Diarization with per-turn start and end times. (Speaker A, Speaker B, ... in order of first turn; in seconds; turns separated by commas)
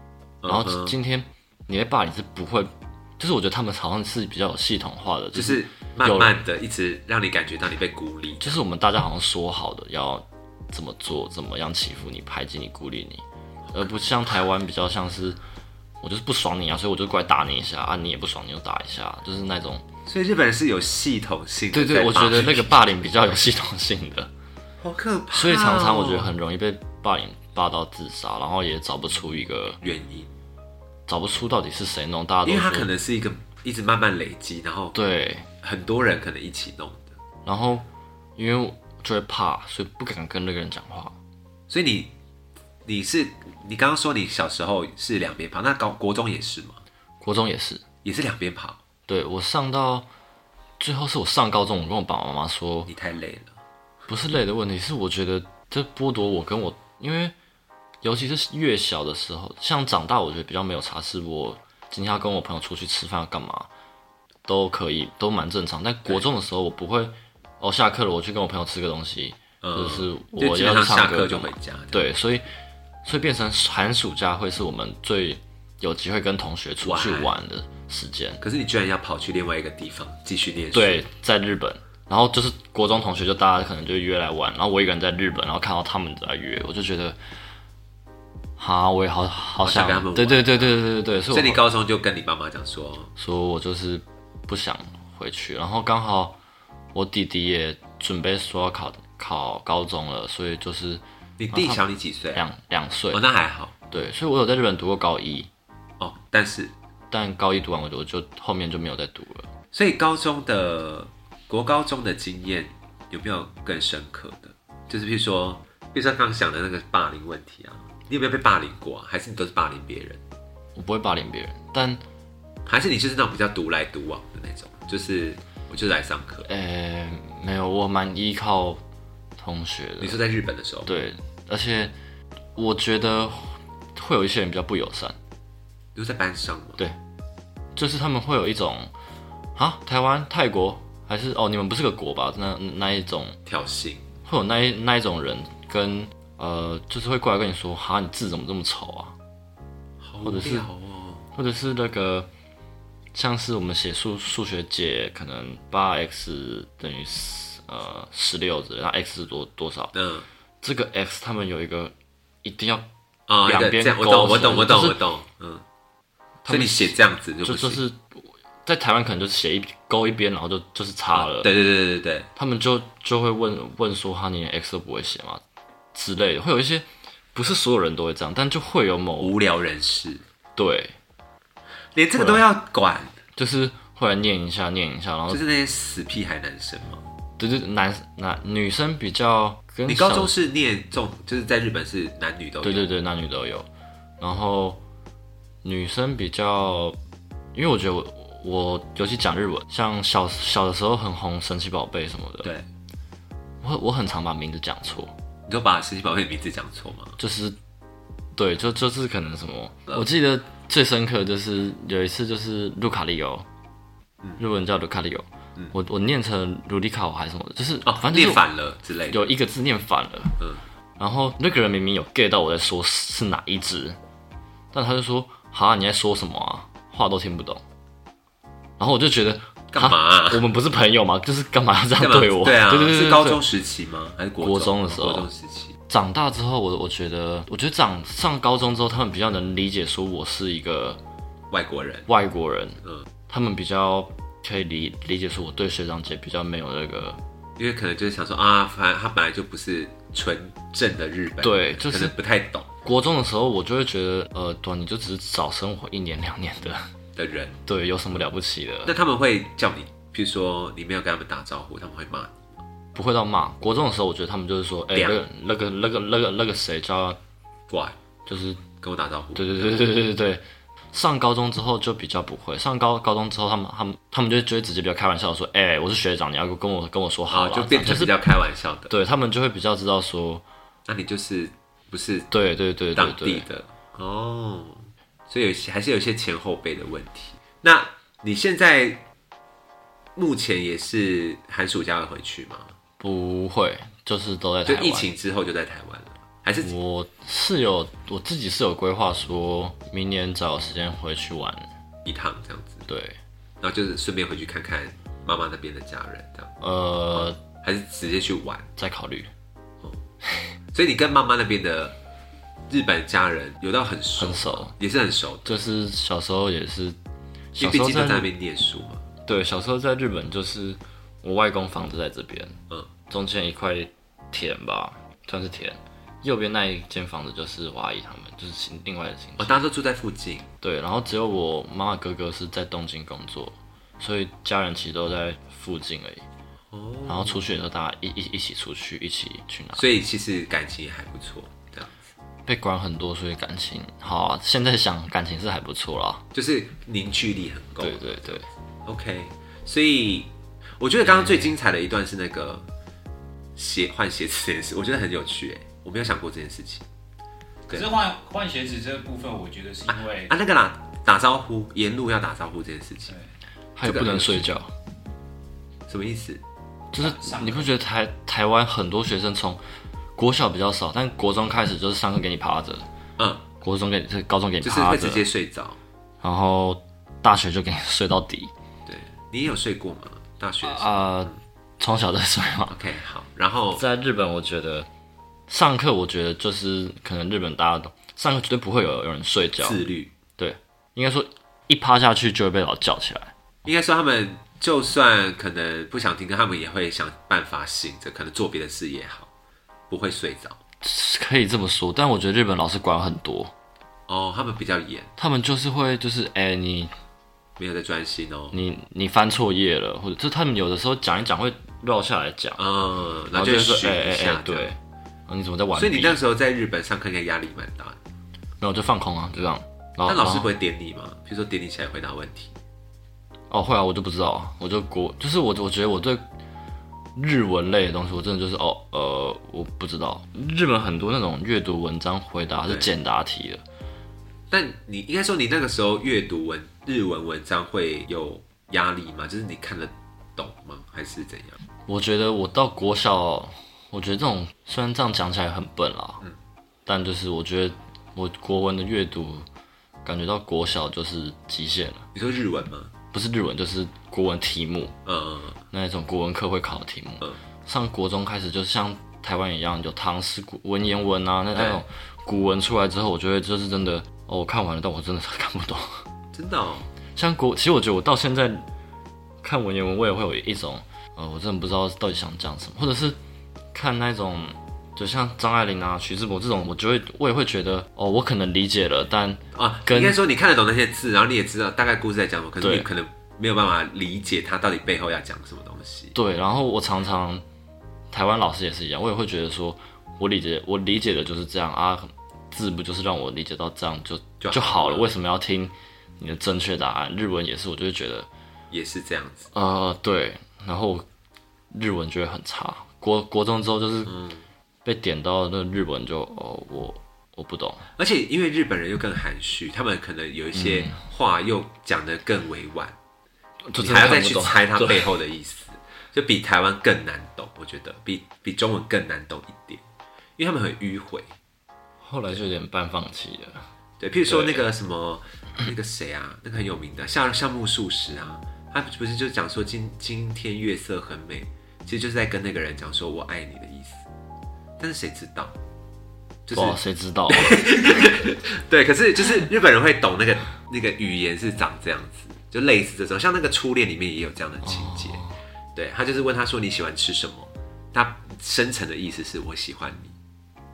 Speaker A: 0.4-0.9, Speaker B: 0.5-6.3, Speaker A: 5.3-8.6, Speaker B: 8.4-15.4, Speaker B: 16.0-19.9, Speaker A: 20.1-22.8, Speaker B: 21.7-24.3, Speaker A: 24.8-26.3, Speaker B: 25.3-29.8, Speaker A: 29.8-30.3, Speaker B: 31.1-32.9, Speaker A: 32.4-35.0, Speaker B: 34.9-35.5, Speaker A: 35.6-37.2, Speaker B: 37.4-41.1, Speaker A: 41.7-42.1, Speaker A: 42.8-46.8, Speaker B: 47.2-47.8, Speaker A: 48.0-48.8, Speaker B: 49.1-50.1, Speaker B: 50.8-52.9, Speaker A: 52.9-53.6, Speaker B: 54.1-57.3, Speaker B: 58.0-63.7, Speaker B: 64.5-72.5, Speaker A: 69.6-72.1, Speaker B: 73.0-78.4, Speaker A: 76.8-77.3, Speaker A: 78.4-81.0, Speaker B: 80.7-87.2, Speaker B: 88.6-91.6, Speaker A: 89.6-90.8, Speaker A: 91.3-93.1, Speaker B: 93.2-96.4, Speaker B: 96.9-103.2, Speaker A: 101.4-102.4, Speaker A: 103.1-103.7, Speaker B: 103.9-105.5, Speaker A: 106.0-106.7, Speaker B: 107.1-109.5, Speaker A: 109.7-120.2, Speaker B: 120.8-122.0, Speaker A: 122.7-126.5, Speaker B: 126.4-128.8, Speaker B: 129.4-130.2, Speaker A: 130.0-130.9, Speaker B: 130.8-131.9, Speaker B: 132.6-135.2, Speaker A: 135.9-136.8, Speaker B: 137.8-138.9, Speaker B: 139.6-143.4, Speaker A: 143.4-144.1, Speaker B: 144.2-149.1, Speaker A: 150.0-151.2, Speaker B: 150.2-150.7, Speaker B: 151.3-152.3, Speaker B: 153.1-159.9, Speaker A: 159.9-160.2, Speaker B: 160.6-162.9, Speaker A: 163.3-165.6, Speaker B: 163.4-165.0, Speaker B: 166.4-171.5, Speaker A: 166.5-167.8, Speaker A: 171.1-172.3, Speaker B: 172.3-175.4, Speaker B: 175.9-179.3, Speaker A: 179.2-180.2, Speaker B: 180.6-180.9, Speaker A: 181.9-183.1, Speaker B: 182.1-182.4, Speaker B: 183.3-185.4, Speaker A: 185.3-187.0, Speaker B: 187.4-190.3, Speaker A: 189.9-192.9, Speaker B: 192.6-193.7, Speaker B: 194.2-194.8, Speaker B: 195.6-197.0, Speaker B: 197.5-202.5, Speaker B: 203.6-205.1, Speaker A: 205.5-207.2, Speaker B: 207.2-207.6, Speaker B: 208.3-213.5, Speaker B: 214.4-218.4, Speaker A: 217.8-219.2, Speaker B: 219.1-220.4, Speaker B: 221.0-224.0, Speaker B: 224.7-227.6, Speaker B: 228.8-233.4, Speaker A: 229.7-230.4, Speaker A: 232.0-235.8, Speaker B: 234.4-235.3, Speaker B: 235.9-241.0, Speaker A: 241.5-242.1, Speaker B: 242.1-247.2, Speaker A: 247.6-252.7, Speaker B: 251.4-252.1, Speaker B: 252.8-256.9, Speaker A: 257.1-257.6, Speaker B: 257.6-258.9, Speaker A: 258.9-262.4, Speaker B: 262.9-267.2, Speaker A: 267.7-268.0, Speaker B: 268.3-268.6, Speaker A: 268.7-269.7, Speaker B: 269.3-278.1, Speaker A: 277.3-278.9, Speaker B: 278.9-280.4, Speaker A: 280.9-282.3, Speaker B: 282.3-283.4, Speaker A: 282.9-289.0, Speaker A: 290.1-292.7, Speaker B: 293.0-295.1, Speaker A: 294.6-296.7, Speaker B: 296.6-301.7, Speaker A: 302.0-302.8, Speaker B: 302.9-303.2, Speaker A: 303.6-306.5, Speaker B: 306.6-307.4, Speaker A: 307.1-308.7, Speaker B: 308.8-309.3, Speaker A: 310.7-311.9, Speaker A: 312.7-315.6, Speaker B: 314.2-314.7, Speaker B: 315.4-317.0, Speaker B: 317.5-318.3, Speaker A: 317.6-319.0, Speaker B: 319.2-322.6, Speaker B: 323.1-329.6, Speaker A: 329.4-330.5, Speaker B: 330.6-336.2, Speaker A: 336.7-337.4, Speaker B: 337.1-339.9, Speaker A: 339.7-342.1, Speaker B: 342.4-346.2, Speaker A: 346.3-352.7, Speaker B: 347.8-348.5, Speaker B: 351.0-351.5, Speaker A: 353.5-356.9, Speaker A: 357.7-357.9, Speaker C: 357.7-360.3, Speaker A: 359.9-363.1, Speaker B: 363.7-364.7, Speaker A: 363.8-364.5, Speaker A: 365.9-366.4, Speaker B: 366.9-369.6, Speaker C: 367.0-367.7, Speaker B: 370.1-372.9, Speaker A: 373.2-373.4, Speaker B: 373.6-375.2, Speaker A: 374.6-375.8, Speaker B: 376.2-378.5, Speaker A: 378.9-381.4, Speaker B: 380.6-382.8, Speaker A: 382.7-383.8, Speaker B: 383.7-384.9, Speaker B: 385.5-389.8, Speaker A: 389.6-390.1, Speaker B: 390.4-393.3, Speaker A: 393.6-399.3, Speaker A: 399.9-400.6, Speaker B: 400.8-403.5, Speaker A: 404.1-405.1, Speaker B: 405.2-406.9, Speaker A: 407.6-408.6, Speaker B: 408.5-412.6, Speaker A: 412.6-414.7, Speaker B: 413.3-416.2, Speaker A: 415.7-418.0, Speaker B: 418.6-420.5, Speaker A: 420.1-422.5, Speaker B: 423.5-426.2, Speaker B: 427.1-433.6, Speaker A: 432.6-432.9, Speaker A: 434.5-441.6, Speaker B: 441.9-446.2, Speaker B: 446.9-449.4, Speaker B: 450.0-452.1, Speaker A: 452.1-452.9, Speaker B: 453.1-454.9, Speaker A: 455.0-455.6, Speaker B: 455.7-466.0, Speaker A: 461.5-461.8, Speaker A: 466.3-466.9, Speaker B: 467.1-468.6, Speaker B: 469.4-473.2, Speaker B: 473.7-480.2, Speaker A: 479.5-486.1, Speaker B: 482.6-482.9, Speaker B: 486.1-487.4, Speaker B: 488.1-498.3, Speaker A: 494.4-495.1, Speaker A: 498.7-499.5, Speaker B: 499.5-501.1, Speaker B: 501.7-504.1, Speaker A: 504.1-504.4, Speaker B: 504.8-507.9, Speaker A: 508.0-512.9, Speaker B: 510.5-511.0, Speaker B: 513.7-515.1, Speaker A: 513.8-519.8, Speaker A: 520.4-521.3, Speaker B: 522.0-523.7, Speaker A: 524.0-534.0, Speaker B: 524.3-524.6, Speaker A: 534.8-535.5, Speaker A: 536.5-545.2, Speaker B: 536.5-537.7, Speaker B: 544.6-545.4, Speaker A: 545.7-550.1